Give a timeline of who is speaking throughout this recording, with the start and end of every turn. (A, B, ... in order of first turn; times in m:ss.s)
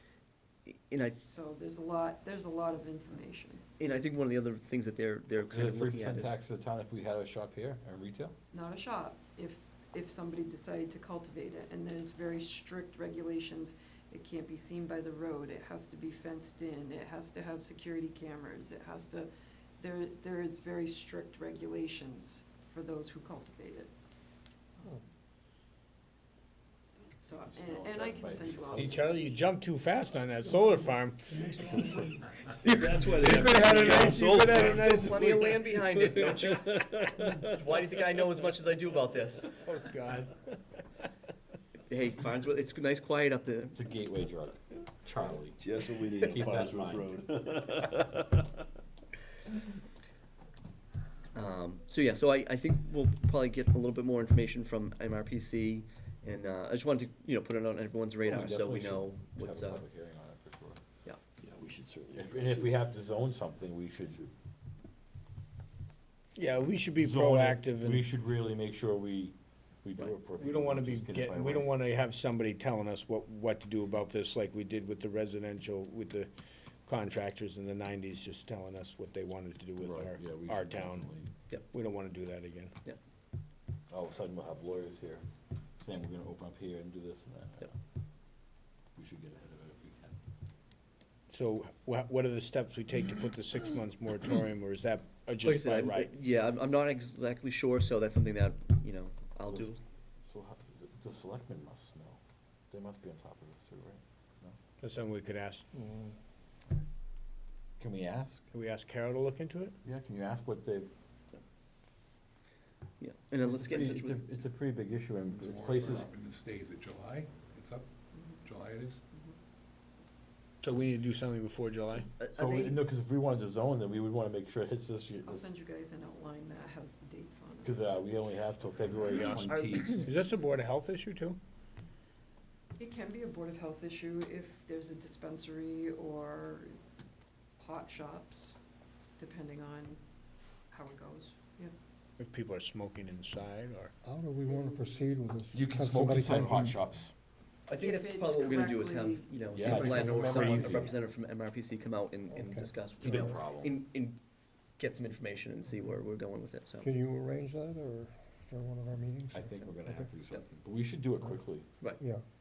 0:00.7-0:01.2 A
0:01.2-0:03.6 B
0:03.8-0:06.3 A
0:05.5-0:08.3 C
0:08.5-0:23.9 B
0:27.2-0:29.1 B
0:27.4-0:29.4 C
0:28.7-0:31.4 D
0:31.4-0:38.0 E
0:33.0-0:35.4 D
0:33.9-0:39.5 A
0:39.6-0:40.3 D
0:41.9-0:43.7 A
0:43.7-0:45.6 C
0:45.6-0:48.5 E
0:46.2-0:47.2 C
0:51.3-0:59.8 A
0:58.2-1:00.8 C
1:01.4-1:02.7 E
1:02.1-1:04.2 C
1:06.3-1:08.0 D
1:07.0-1:11.7 C
1:10.4-1:16.3 D
1:16.8-1:21.1 D
1:19.8-1:21.3 C
1:21.7-1:22.7 D
1:23.9-1:25.2 C
1:25.8-1:27.7 C
1:29.0-1:30.2 C
1:31.3-1:36.1 D
1:35.4-1:39.8 A
1:39.5-1:39.7 C
1:40.3-1:44.6 C
1:44.8-1:45.7 D
1:45.7-1:46.1 F
1:47.8-1:48.4 C
1:48.5-1:49.8 D
1:49.8-1:50.9 C
1:53.0-1:54.2 A
1:53.4-1:56.1 C
1:55.4-1:57.9 G
1:58.1-1:58.4 B
1:58.4-1:59.0 G
2:00.6-2:02.1 D
2:02.2-2:02.8 A
2:02.3-2:05.5 C
2:05.2-2:07.8 B
2:07.6-2:10.1 C
2:09.1-2:11.4 D
2:09.4-2:10.0 A
2:12.8-2:16.7 B
2:17.6-2:18.6 B
2:19.2-2:20.0 B
2:20.7-2:21.7 B
2:22.2-2:23.9 D
2:24.0-2:26.8 F
2:24.4-2:25.1 B
2:25.5-2:27.1 C
2:27.7-2:34.2 A
2:27.8-2:29.3 B
2:29.5-2:31.0 C
2:29.6-2:31.0 F
2:32.3-2:32.7 F
2:33.0-2:33.8 C
2:34.8-2:36.9 A
2:36.8-2:40.1 F
2:39.3-2:41.7 C